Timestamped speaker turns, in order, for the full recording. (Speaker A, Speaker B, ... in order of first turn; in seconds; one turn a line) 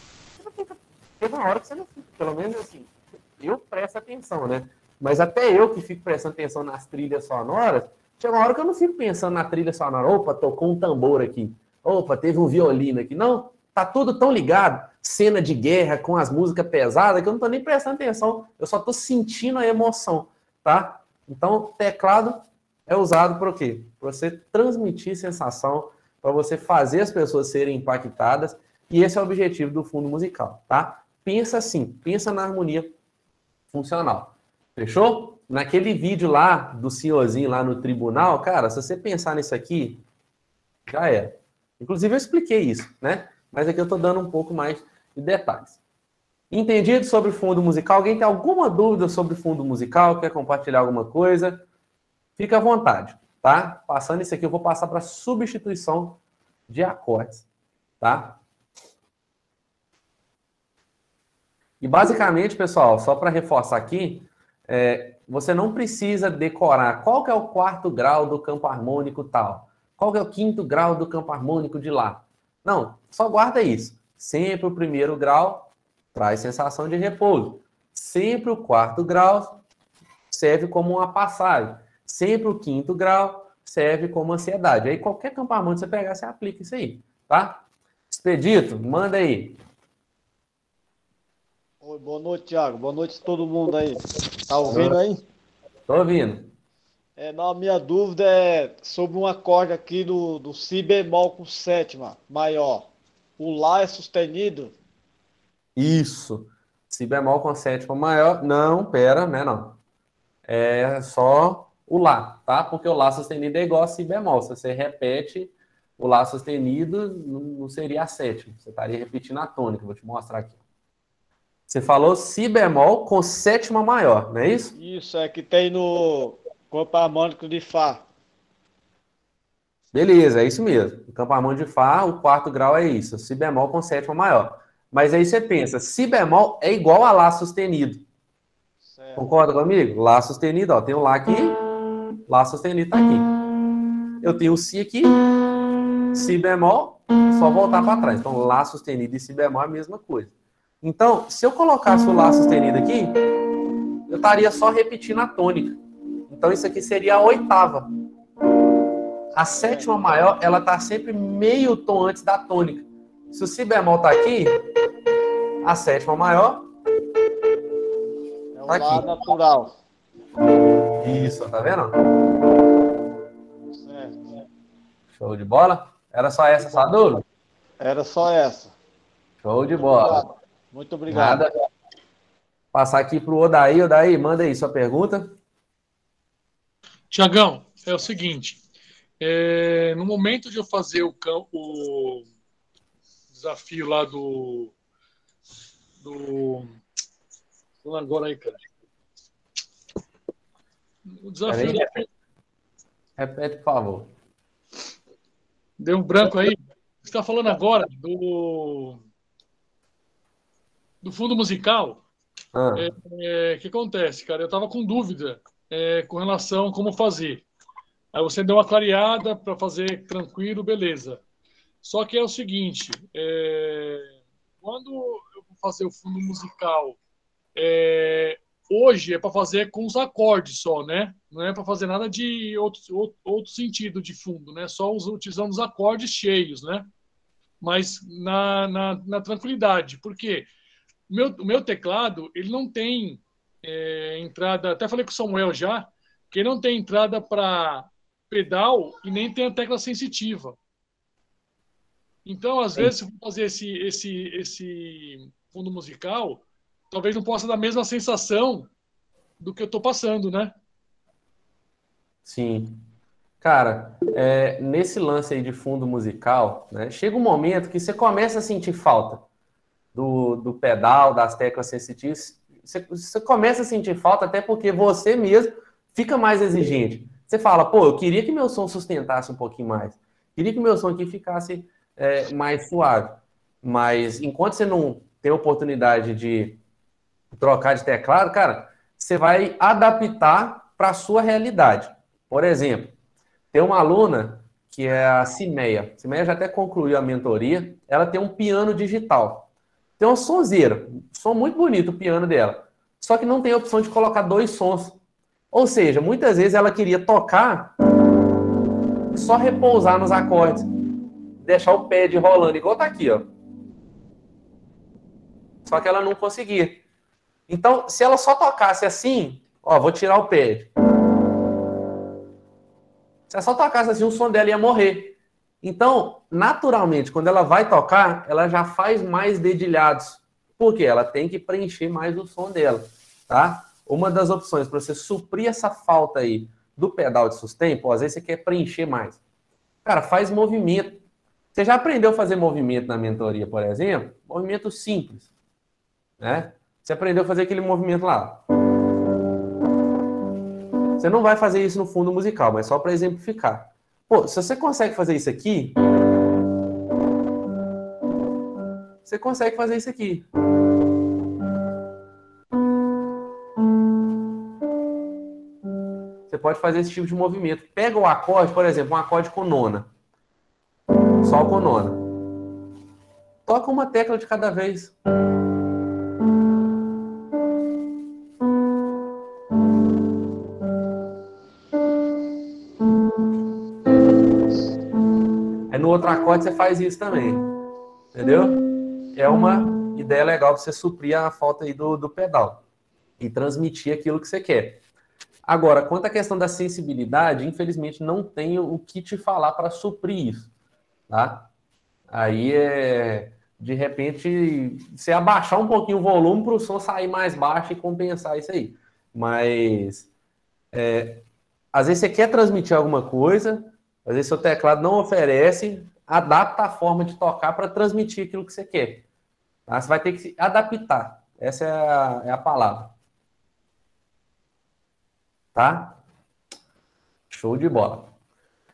Speaker A: 0.4-32.9
Speaker A: 33.7-40.0
Speaker A: 40.9-45.8
Speaker A: 46.5-51.6
Speaker A: 52.4-57.4
Speaker A: 58.0-58.4
Speaker A: 61.8-79.6
Speaker A: 80.3-89.6
Speaker B: 91.8-95.2
Speaker A: 94.7-95.0
Speaker A: 95.9-96.5
Speaker B: 97.2-104.7
Speaker A: 105.8-109.8
Speaker A: 110.5-120.6
Speaker A: 121.7-124.7
Speaker B: 124.7-128.0
Speaker A: 129.9-138.0
Speaker B: 138.9-139.3
Speaker A: 139.2-141.6
Speaker A: 142.3-143.3
Speaker A: 144.2-145.2
Speaker A: 146.1-153.2
Speaker A: 154.1-157.9
Speaker A: 159.3-164.6
Speaker B: 159.6-160.1
Speaker A: 165.6-166.7
Speaker B: 168.5-169.7
Speaker A: 168.7-169.1
Speaker A: 171.0-171.9
Speaker B: 173.7-174.3
Speaker A: 175.2-177.2
Speaker B: 177.8-178.8
Speaker A: 179.4-180.2
Speaker B: 180.0-181.4
Speaker A: 181.1-181.5
Speaker A: 182.7-185.3
Speaker C: 187.1-188.6
Speaker C: 189.2-192.3
Speaker C: 193.3-194.7
Speaker C: 196.0-196.8
Speaker C: 197.8-198.6
Speaker C: 201.1-202.1
Speaker A: 201.5-202.0
Speaker A: 203.2-204.1
Speaker C: 205.8-209.0
Speaker C: 211.0-212.0
Speaker A: 212.5-212.9
Speaker C: 212.8-217.4
Speaker C: 218.1-221.2
Speaker C: 221.8-227.0
Speaker C: 227.5-236.9
Speaker C: 237.6-240.5
Speaker C: 241.1-250.6
Speaker C: 252.2-258.7
Speaker C: 259.4-260.5
Speaker A: 262.2-262.8
Speaker A: 263.4-269.2
Speaker A: 269.9-286.6
Speaker A: 287.3-292.9
Speaker A: 293.5-299.5
Speaker A: 300.0-305.0
Speaker A: 305.5-307.8
Speaker A: 309.1-310.7
Speaker A: 311.4-313.3
Speaker A: 315.6-316.8
Speaker A: 317.5-320.7
Speaker A: 323.3-339.2
Speaker A: 339.8-341.0
Speaker A: 341.5-345.3
Speaker A: 346.2-348.4
Speaker A: 351.0-355.8
Speaker A: 359.0-360.2
Speaker A: 366.3-369.9
Speaker A: 371.2-372.0
Speaker A: 373.4-374.9
Speaker A: 385.7-387.5
Speaker A: 388.1-388.6
Speaker A: 389.1-392.6
Speaker A: 393.2-394.8
Speaker A: 395.4-400.5
Speaker A: 401.1-401.5
Speaker A: 402.1-410.1
Speaker A: 410.7-419.0
Speaker A: 419.7-422.9
Speaker A: 425.5-426.0
Speaker A: 427.3-428.1